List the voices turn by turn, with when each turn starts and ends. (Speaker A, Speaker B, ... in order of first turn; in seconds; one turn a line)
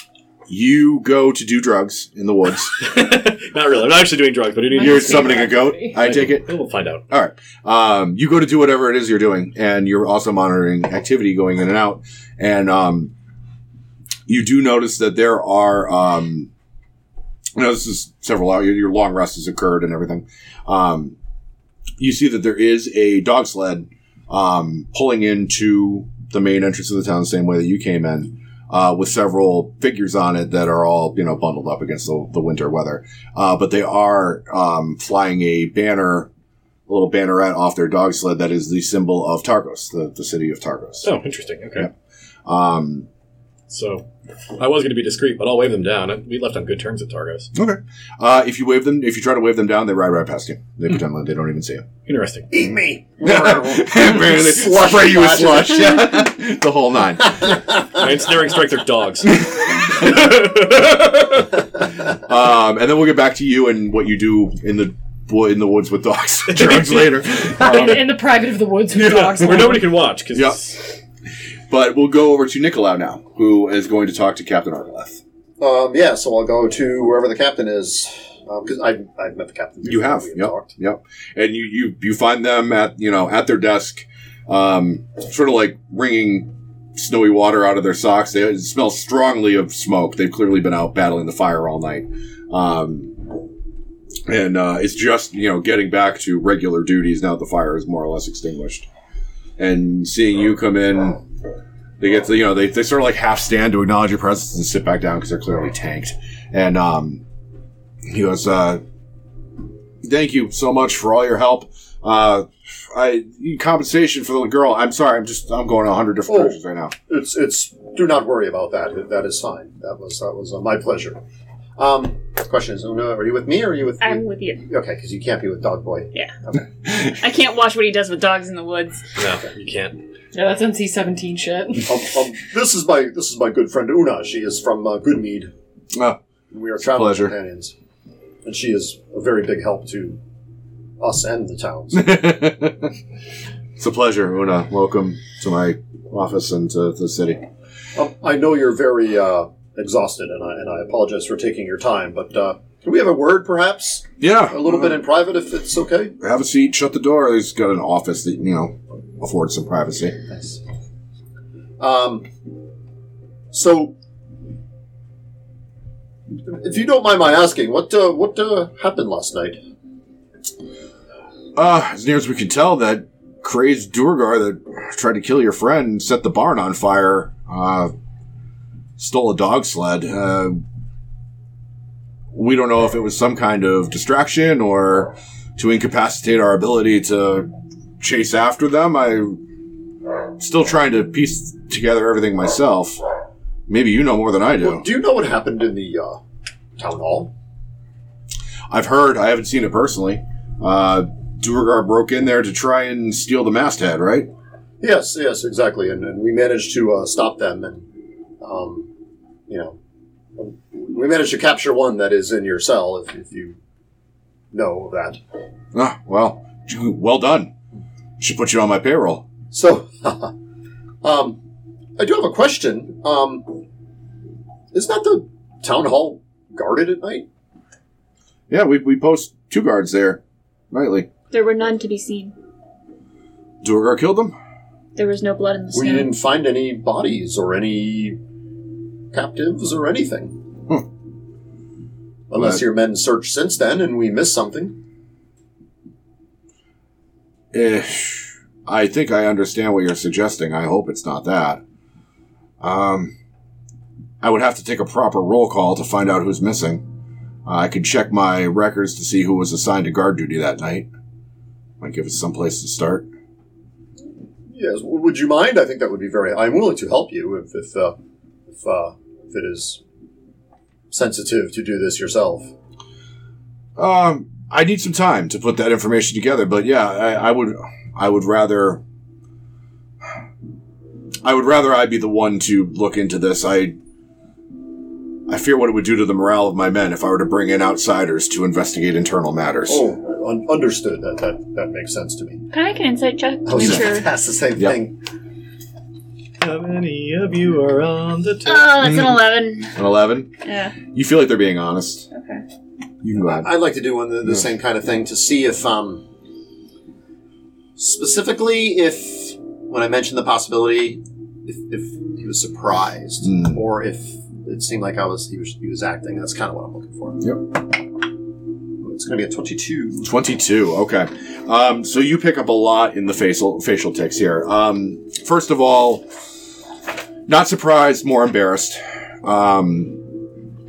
Speaker A: 0.5-2.8
Speaker B: 2.8-7.0
Speaker C: 4.7-6.0
Speaker A: 4.8-6.5
Speaker A: 7.1-13.1
Speaker A: 14.3-16.5
Speaker A: 17.5-21.1
Speaker A: 22.0-36.3
Speaker A: 36.9-41.1
Speaker B: 41.0-41.9
Speaker A: 42.5-43.1
Speaker B: 43.7-44.0
Speaker B: 44.6-47.5
Speaker A: 47.5-51.8
Speaker B: 52.0-52.5
Speaker D: 52.5-56.2
Speaker A: 53.2-57.6
Speaker B: 57.8-61.5
Speaker A: 59.4-61.4
Speaker A: 62.1-68.0
Speaker B: 66.5-68.0
Speaker C: 67.6-69.9
Speaker B: 68.9-70.8
Speaker A: 69.2-69.8
Speaker A: 70.3-70.8
Speaker A: 71.7-75.2
Speaker D: 75.6-80.7
Speaker A: 79.8-93.2
Speaker A: 94.3-98.9
Speaker A: 99.6-101.2
Speaker A: 102.0-107.2
Speaker A: 108.0-108.8
Speaker A: 110.0-116.9
Speaker D: 116.3-121.2
Speaker D: 121.8-126.7
Speaker E: 124.0-124.6
Speaker E: 127.0-129.1
Speaker B: 129.2-130.0
Speaker C: 130.3-131.9
Speaker D: 131.8-135.5
Speaker A: 135.9-136.2
Speaker D: 136.5-137.7
Speaker A: 136.8-137.3
Speaker D: 138.4-140.2
Speaker D: 141.0-142.2
Speaker A: 141.9-142.9
Speaker A: 143.8-147.4
Speaker D: 147.9-156.1
Speaker A: 154.2-155.0
Speaker A: 156.2-160.2
Speaker D: 160.3-160.6
Speaker D: 161.8-162.3
Speaker D: 163.5-163.9
Speaker D: 166.4-169.6
Speaker A: 171.5-177.9
Speaker A: 179.0-180.6
Speaker A: 182.3-189.4
Speaker A: 190.4-193.0
Speaker A: 193.7-194.8
Speaker D: 194.6-196.2
Speaker D: 196.8-197.3
Speaker A: 198.7-204.3
Speaker D: 204.8-207.9
Speaker D: 208.4-208.9
Speaker D: 209.5-209.8
Speaker D: 210.4-213.6
Speaker D: 214.5-215.2
Speaker A: 215.7-217.5
Speaker A: 218.2-219.3
Speaker D: 219.5-220.3
Speaker D: 221.0-221.4
Speaker D: 222.0-223.6
Speaker D: 224.7-227.2
Speaker A: 228.5-231.1
Speaker E: 231.3-232.3
Speaker A: 233.6-234.3
Speaker E: 234.9-236.2
Speaker D: 235.7-238.2
Speaker D: 239.1-240.4
Speaker D: 242.3-244.8
Speaker A: 242.3-242.6
Speaker A: 247.5-251.6
Speaker A: 252.6-253.1
Speaker A: 254.2-256.8
Speaker A: 257.4-260.9
Speaker A: 261.8-263.1
Speaker D: 264.5-268.0
Speaker D: 268.5-269.8
Speaker D: 270.9-272.5
Speaker A: 273.8-278.8
Speaker A: 281.2-283.8
Speaker A: 285.3-289.8
Speaker D: 289.7-292.4
Speaker E: 292.5-294.1
Speaker D: 293.4-295.0
Speaker B: 296.4-298.9
Speaker E: 298.4-299.7
Speaker A: 298.8-299.2
Speaker A: 299.7-300.3
Speaker E: 300.4-300.8
Speaker A: 300.8-302.1
Speaker E: 302.1-302.4
Speaker A: 303.0-303.5
Speaker D: 303.2-306.1
Speaker D: 307.8-317.2
Speaker A: 313.2-313.6
Speaker A: 317.2-317.5
Speaker D: 318.8-320.1
Speaker A: 320.0-326.1
Speaker A: 327.3-330.1